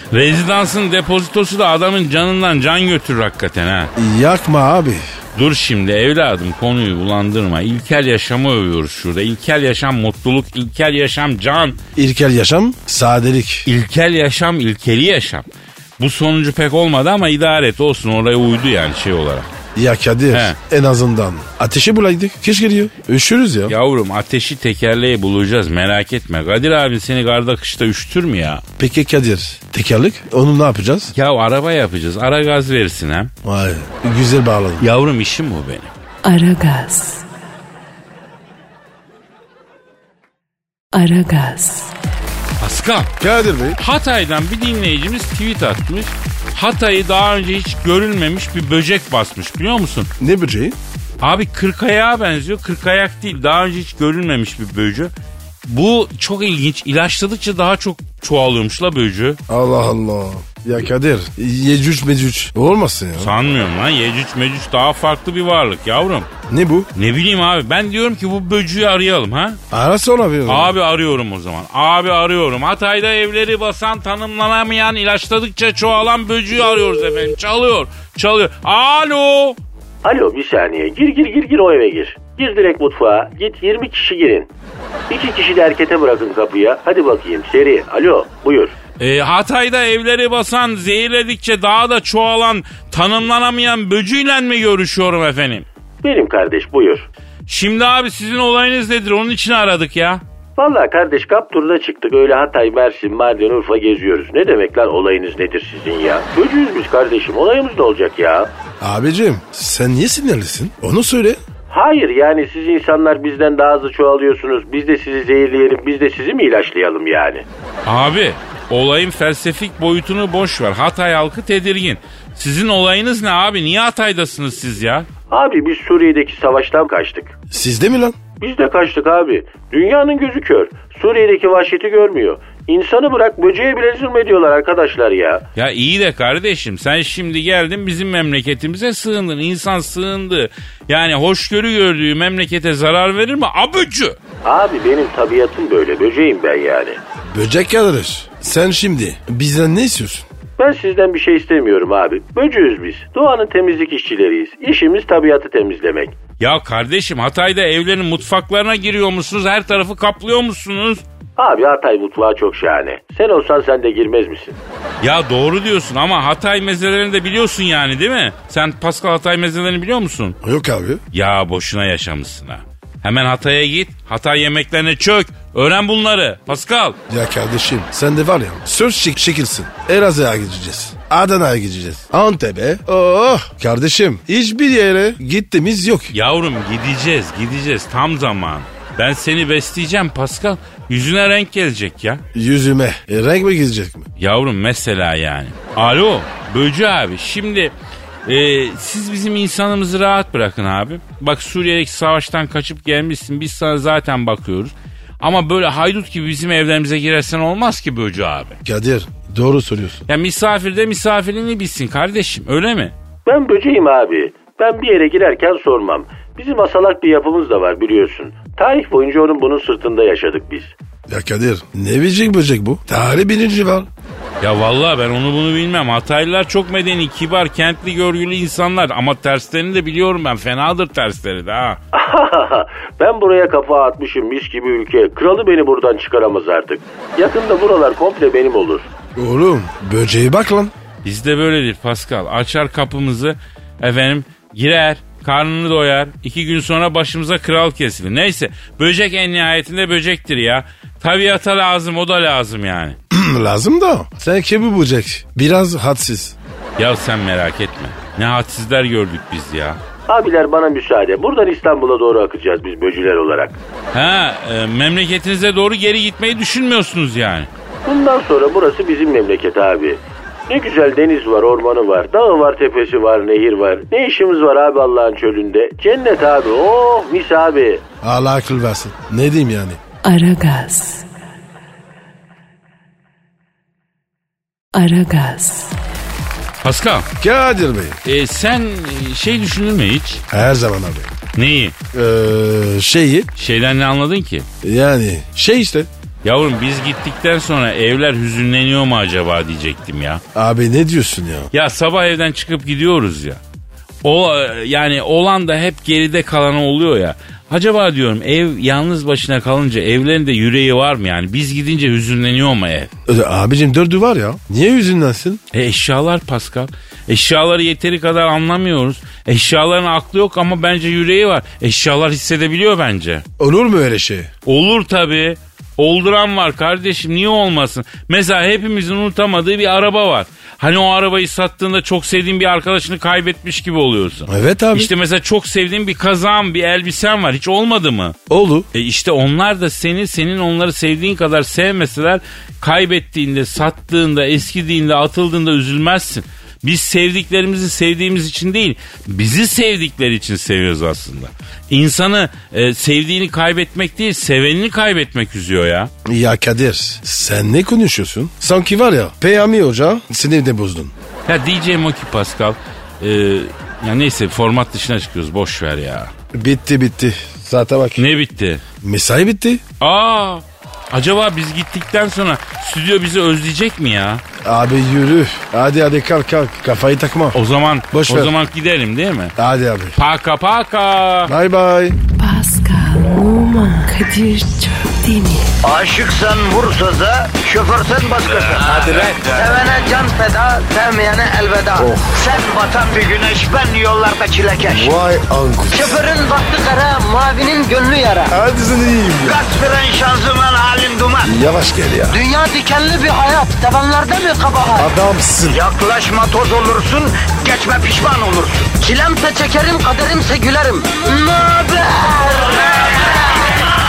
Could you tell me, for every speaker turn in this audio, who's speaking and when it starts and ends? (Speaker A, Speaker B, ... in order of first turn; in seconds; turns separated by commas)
Speaker A: 0.1-3.9, Speaker B: 4.0-5.0, Speaker A: 5.3-11.8, Speaker B: 11.9-13.7, Speaker A: 13.7-15.5, Speaker A: 16.0-19.5, Speaker B: 19.7-23.7, Speaker A: 20.3-20.6, Speaker A: 23.7-28.6, Speaker B: 28.8-31.1, Speaker A: 31.1-33.3, Speaker B: 33.4-34.9, Speaker A: 34.8-35.9, Speaker C: 36.2-37.2, Speaker C: 40.9-42.0, Speaker A: 42.6-43.1, Speaker B: 43.2-43.8, Speaker A: 43.8-50.1, Speaker B: 50.2-50.8, Speaker A: 51.2-55.1, Speaker A: 55.6-59.4, Speaker B: 59.5-63.3, Speaker A: 63.2-66.3, Speaker B: 66.5-66.9, Speaker A: 66.9-69.6, Speaker B: 69.7-70.7, Speaker A: 70.5-79.6, Speaker D: 80.0-84.5, Speaker D: 85.1-88.7, Speaker A: 89.0-95.7, Speaker D: 96.0-97.1, Speaker A: 97.5-100.2, Speaker D: 100.6-108.5, Speaker B: 108.8-111.4, Speaker D: 111.7-117.4, Speaker A: 117.8-125.1, Speaker D: 125.3-127.3, Speaker B: 127.5-128.2, Speaker D: 128.4-135.4, Speaker A: 135.6-144.2, Speaker D: 144.4-147.0, Speaker B: 147.3-150.2, Speaker D: 150.6-156.1, Speaker A: 156.4-161.0, Speaker D: 161.4-164.6, Speaker A: 165.0-170.4, Speaker B: 170.4-171.0, Speaker A: 171.1-177.0, Speaker B: 177.1-186.1, Speaker A: 186.1-192.2, Speaker B: 192.3-194.1, Speaker A: 194.2-197.7, Speaker A: 198.2-208.6, Speaker B: 208.6-210.1, Speaker A: 210.1-212.9, Speaker D: 213.2-220.7, Speaker B: 221.1-223.9, Speaker A: 224.4-231.8, Speaker D: 231.9-238.9, Speaker B: 239.2-240.7, Speaker A: 241.0-253.0, Speaker B: 253.1-256.4, Speaker A: 256.8-259.8, Speaker D: 260.1-263.6, Speaker A: 263.9-267.5, Speaker D: 267.9-277.8, Speaker B: 278.0-279.8, Speaker C: 280.0-281.0, Speaker C: 284.7-285.8, Speaker A: 286.6-287.1, Speaker B: 287.2-288.0, Speaker A: 288.0-290.2, Speaker B: 290.3-291.1, Speaker A: 291.4-291.8, Speaker B: 291.9-293.3, Speaker A: 293.4-294.5, Speaker B: 294.6-295.9, Speaker A: 296.2-300.2, Speaker B: 300.3-301.5, Speaker A: 301.5-303.4, Speaker A: 304.0-312.9, Speaker B: 313.1-315.4, Speaker A: 315.5-323.2, Speaker B: 323.4-324.3, Speaker A: 324.4-338.2, Speaker B: 334.3-334.9, Speaker B: 338.3-338.7, Speaker A: 338.7-355.9, Speaker B: 356.0-360.9, Speaker A: 361.2-366.1, Speaker B: 366.3-368.0, Speaker A: 368.0-368.6, Speaker B: 368.8-369.6, Speaker A: 369.8-374.2, Speaker B: 374.4-377.4, Speaker A: 377.3-379.3, Speaker B: 377.9-378.3, Speaker B: 379.4-380.0, Speaker A: 379.9-381.3, Speaker B: 381.3-382.0, Speaker C: 382.1-385.5, Speaker E: 385.6-395.0, Speaker A: 388.7-389.2, Speaker B: 391.8-392.2, Speaker B: 394.7-395.9, Speaker E: 395.7-398.3, Speaker B: 398.3-399.4, Speaker E: 399.2-401.4, Speaker B: 401.2-402.2, Speaker E: 402.1-404.9, Speaker B: 404.8-405.6, Speaker E: 405.4-413.1